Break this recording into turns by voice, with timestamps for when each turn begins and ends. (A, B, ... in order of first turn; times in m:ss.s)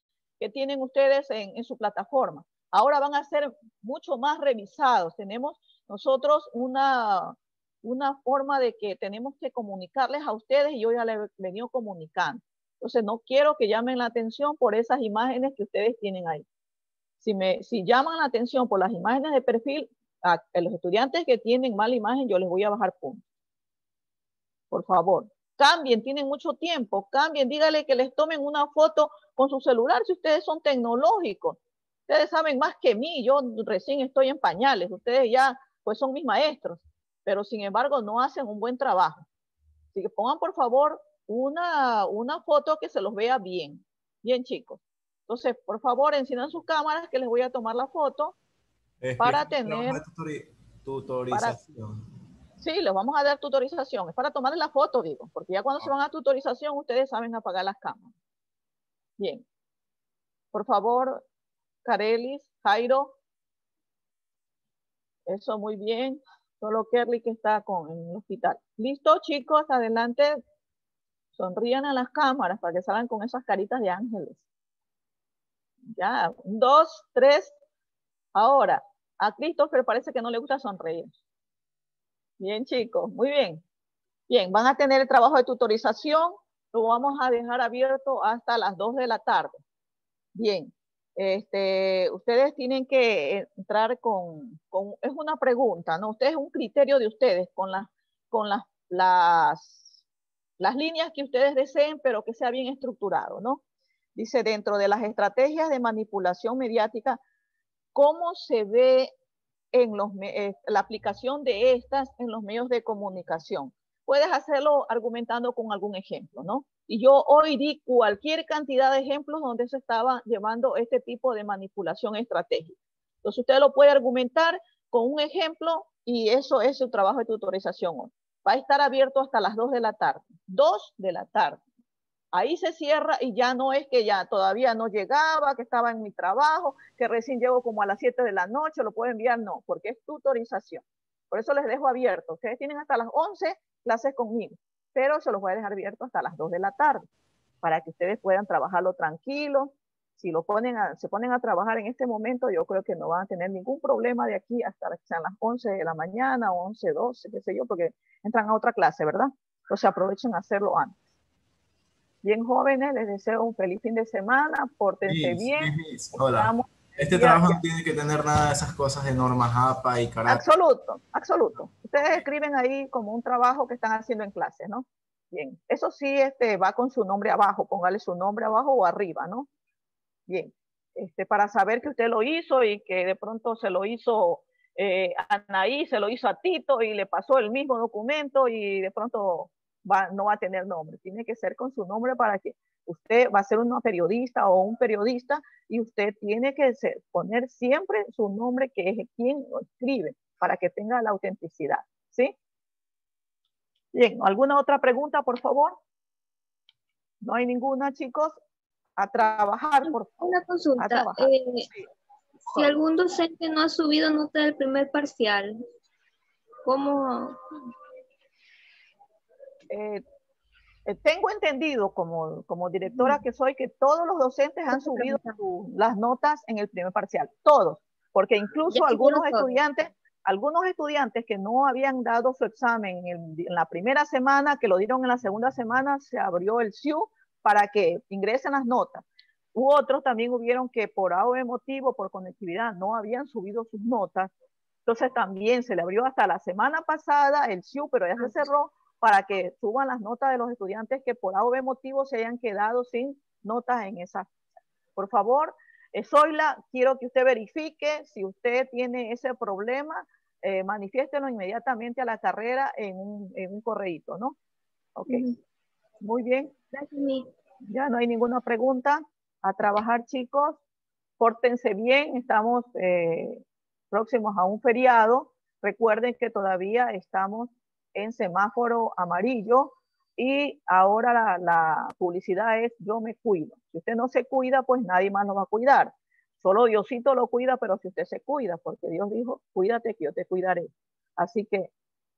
0:00.4-0:16.4 A
0:17.2-0:23.2 A
0:24.7-0:39.3 A
0:39.9-0:48.3 A
0:49.0-0:52.0 B
0:49.2-0:50.0 A
0:51.3-0:51.6 A
0:52.6-0:58.1 A
0:59.2-0:59.4 A
1:00.5-1:01.2 A
1:01.8-1:03.1 A
1:05.3-1:10.4 A
1:11.4-1:14.4 A
1:15.9-1:17.5 A
1:18.3-1:21.1 A
1:22.4-1:23.6 A
1:24.3-1:29.6 A
1:30.3-1:39.9 A
1:40.6-1:43.6 A
1:44.2-1:47.2 A
1:47.9-1:49.1 A
1:49.7-2:11.6 A
2:12.3-2:27.1 A
2:27.6-2:41.0 A
2:42.2-2:47.6 A
2:45.0-2:50.4 B
2:50.2-2:59.5 A
3:00.3-3:22.3 A
3:23.9-3:25.8 A
3:27.2-3:28.4 A
3:29.0-3:30.2 A
3:29.8-3:31.7 C
3:30.8-3:31.9 A
3:32.5-3:35.6 C
3:36.7-3:37.4 C
3:39.7-3:40.0 A
3:40.9-3:59.0 A
3:42.9-3:43.2 C
3:44.7-3:45.4 C
3:48.7-3:49.6 C
3:59.5-4:04.3 A
4:04.9-4:14.3 A
4:15.0-4:24.4 A
4:25.0-4:25.3 A
4:25.1-4:25.3 C
4:26.0-4:26.5 A
4:26.7-4:27.3 C
4:27.7-4:30.6 A
4:31.2-4:51.7 A